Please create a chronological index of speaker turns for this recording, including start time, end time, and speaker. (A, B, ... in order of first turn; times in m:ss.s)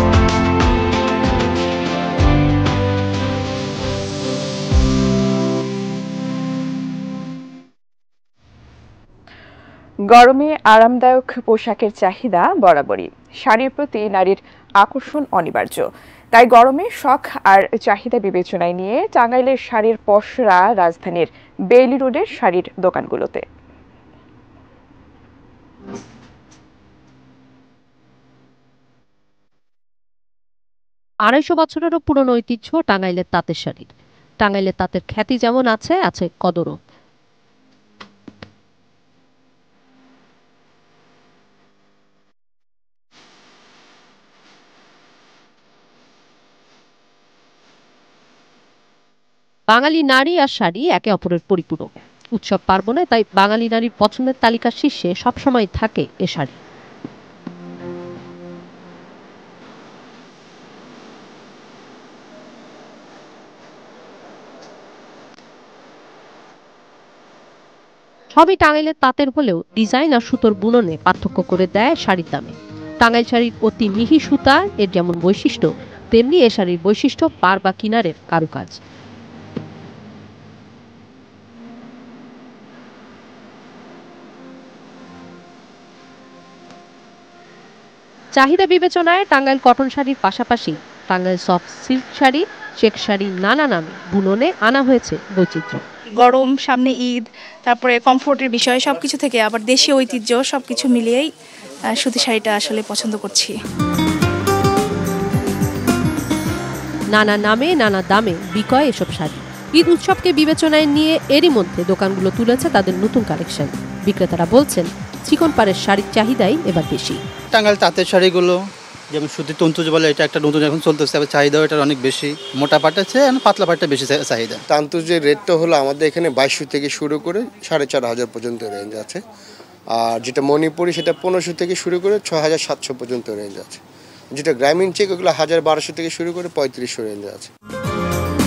0:10.1-0:23.4 A
0:31.3-0:33.9 B
0:34.4-0:36.8 B
0:49.7-0:56.6 B
1:08.3-1:18.8 B
1:28.4-1:35.8 B
1:36.2-1:41.3 C
1:41.9-1:43.5 C
1:47.1-1:57.2 B
1:57.5-1:58.6 D
1:59.1-2:04.6 D
2:04.7-2:09.2 E
2:09.9-2:13.8 E
2:14.3-2:17.5 E